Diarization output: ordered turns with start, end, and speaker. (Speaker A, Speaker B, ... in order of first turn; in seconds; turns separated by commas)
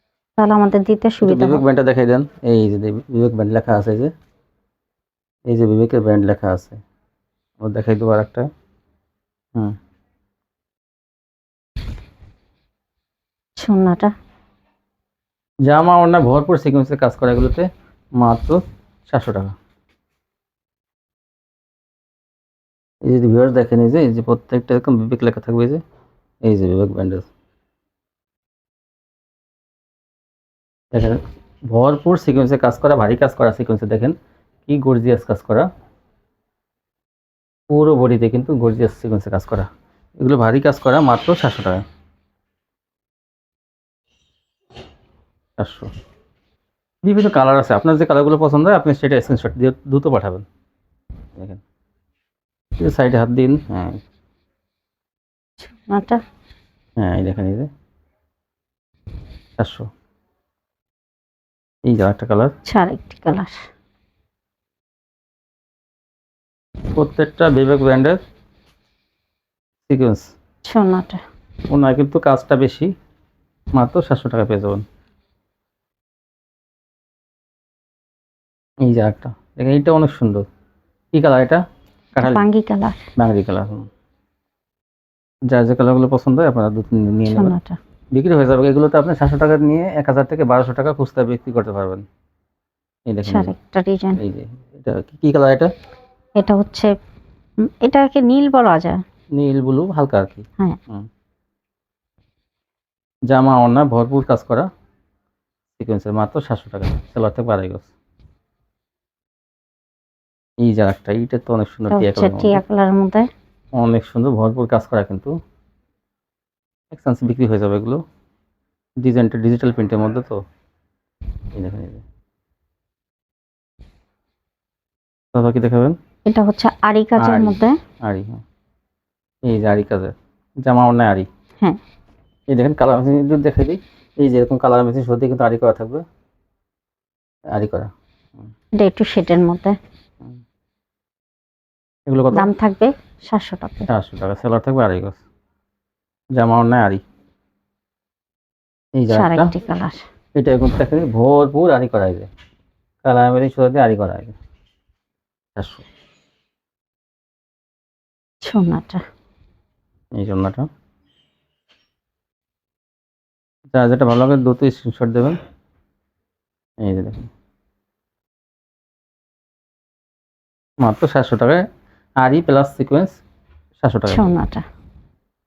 Speaker A: 0.4-1.6, Speaker B: 1.2-4.1, Speaker B: 5.5-6.8, Speaker B: 7.6-8.5, Speaker A: 13.6-14.1, Speaker B: 15.7-17.7, Speaker B: 18.2-19.5, Speaker B: 23.1-25.8, Speaker B: 26.4-27.3, Speaker B: 30.9-34.1, Speaker B: 34.7-35.7, Speaker B: 37.7-39.7, Speaker B: 40.2-41.8, Speaker B: 45.6-45.9, Speaker B: 47.0-50.5, Speaker B: 51.4-51.6, Speaker B: 52.8-54.0, Speaker A: 55.6-56.2, Speaker B: 57.0-57.7, Speaker B: 59.6-59.9, Speaker B: 61.9-62.5, Speaker A: 62.6-63.6, Speaker B: 66.9-68.2, Speaker B: 69.9-70.3, Speaker A: 70.7-71.2, Speaker B: 71.7-72.9, Speaker B: 73.7-74.8, Speaker B: 78.8-80.5, Speaker B: 81.1-81.6, Speaker A: 82.2-83.0, Speaker B: 82.2-82.5, Speaker B: 83.2-83.9, Speaker B: 85.5-87.6, Speaker A: 87.3-87.8, Speaker B: 88.1-92.0, Speaker B: 93.1-93.5, Speaker A: 93.2-94.2, Speaker B: 94.2-95.7, Speaker A: 96.4-96.9, Speaker A: 97.6-99.0, Speaker B: 99.3-101.1, Speaker B: 103.3-104.7, Speaker B: 105.8-107.9, Speaker B: 110.6-112.6, Speaker A: 111.9-113.3, Speaker B: 113.8-115.3, Speaker B: 116.9-118.0, Speaker B: 119.0-120.4, Speaker B: 121.5-122.0, Speaker B: 125.3-126.0, Speaker A: 126.3-127.8, Speaker B: 127.2-128.4, Speaker B: 129.4-131.3, Speaker B: 132.5-136.1, Speaker B: 137.5-137.9, Speaker A: 138.8-139.8, Speaker B: 142.1-142.5, Speaker A: 142.3-143.9, Speaker B: 143.9-145.2, Speaker B: 146.3-147.0, Speaker B: 149.0-149.5, Speaker A: 149.1-150.1, Speaker B: 150.3-152.3, Speaker B: 153.0-154.3, Speaker B: 155.6-155.8, Speaker A: 158.4-159.0, Speaker B: 160.2-160.7, Speaker B: 163.7-165.4, Speaker B: 166.8-167.3, Speaker B: 170.8-171.7, Speaker B: 172.2-173.2, Speaker B: 173.8-174.3, Speaker A: 174.1-174.6